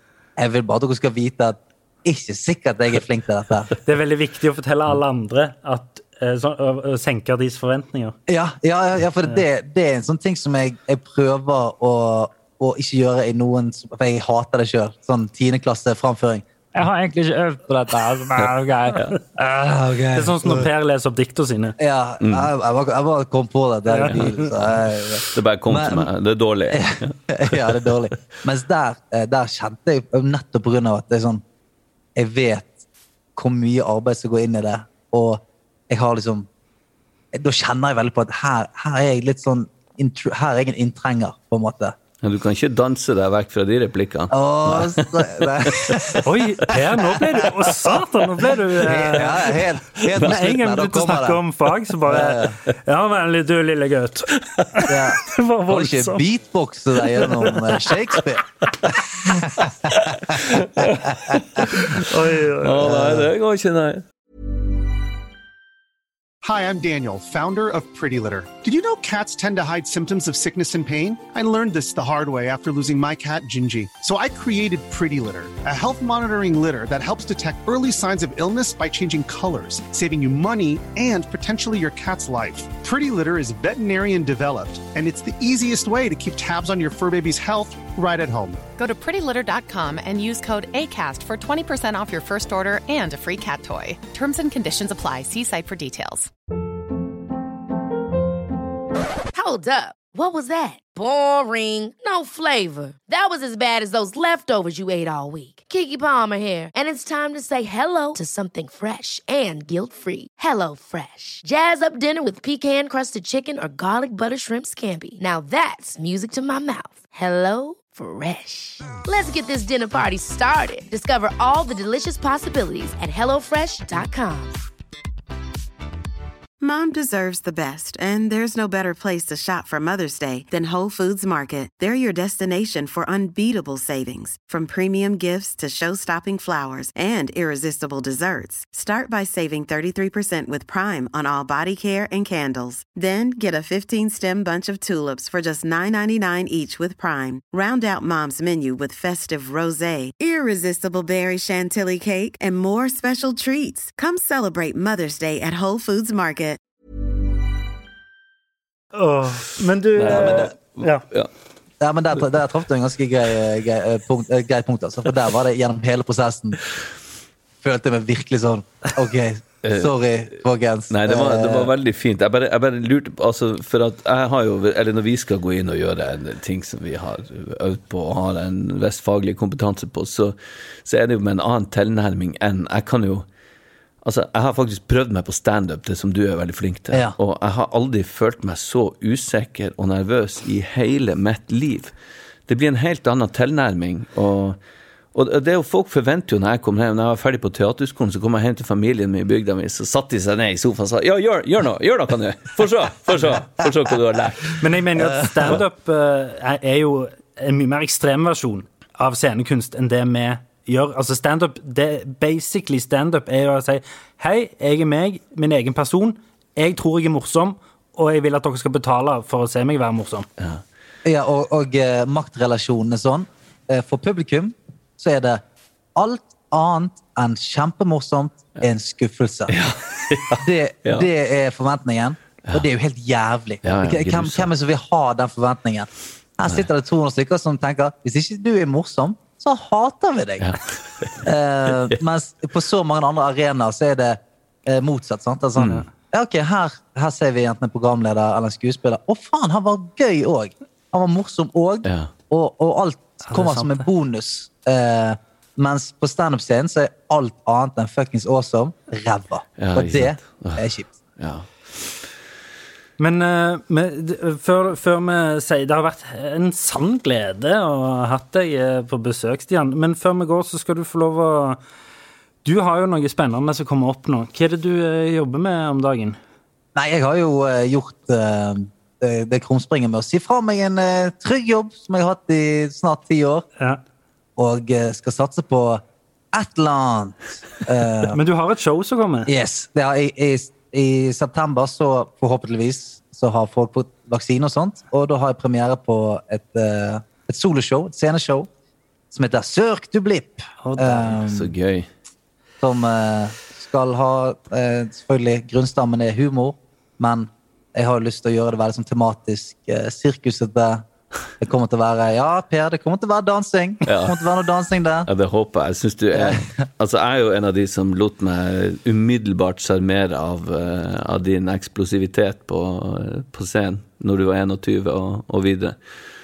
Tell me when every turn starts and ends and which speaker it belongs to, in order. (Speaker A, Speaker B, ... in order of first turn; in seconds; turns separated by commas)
Speaker A: 0.4-3.7, Speaker B: 3.8-8.2, Speaker A: 8.3-16.4, Speaker B: 16.7-19.2, Speaker A: 19.4-20.7, Speaker B: 20.1-21.8, Speaker A: 21.8-26.1, Speaker C: 22.2-22.5, Speaker B: 23.9-24.5, Speaker C: 25.3-28.1, Speaker A: 26.7-31.4, Speaker A: 32.1-32.8, Speaker A: 33.4-36.5, Speaker A: 37.3-42.0, Speaker C: 42.2-46.1, Speaker A: 44.3-46.2, Speaker B: 46.2-49.4, Speaker C: 46.7-47.1, Speaker A: 48.8-51.4, Speaker B: 50.1-56.2, Speaker A: 52.1-52.6, Speaker A: 54.9-58.5, Speaker B: 57.2-57.6, Speaker A: 59.6-61.6, Speaker C: 59.9-62.0, Speaker B: 62.0-62.8, Speaker C: 62.6-64.0, Speaker A: 62.8-63.3, Speaker D: 66.4-88.6, Speaker E: 88.8-96.3, Speaker F: 99.3-124.5, Speaker G: 126.6-156.6, Speaker B: 158.9-161.0, Speaker C: 160.0-161.3, Speaker A: 161.8-166.6, Speaker A: 167.6-171.7, Speaker C: 169.6-169.9, Speaker C: 170.9-183.2, Speaker C: 184.0-191.9, Speaker C: 192.5-194.6, Speaker C: 195.1-204.6, Speaker B: 204.6-220.3, Speaker A: 221.0-225.4, Speaker A: 225.9-229.5, Speaker C: 229.5-231.1, Speaker A: 230.4-240.5, Speaker C: 233.6-234.5, Speaker C: 240.4-241.2, Speaker A: 241.2-260.9, Speaker C: 245.6-245.8, Speaker C: 251.8-252.1, Speaker B: 253.3-253.9, Speaker C: 259.6-260.6, Speaker C: 261.2-261.9, Speaker B: 263.0-271.6, Speaker B: 272.4-276.2, Speaker A: 276.7-283.4, Speaker A: 284.4-285.8, Speaker A: 286.3-288.2, Speaker B: 288.1-289.3, Speaker A: 289.3-298.5, Speaker A: 299.1-301.5, Speaker B: 300.6-301.2, Speaker C: 301.2-301.9, Speaker A: 302.6-310.9, Speaker A: 311.4-315.1, Speaker C: 313.9-314.1, Speaker C: 315.1-325.8, Speaker A: 316.1-316.5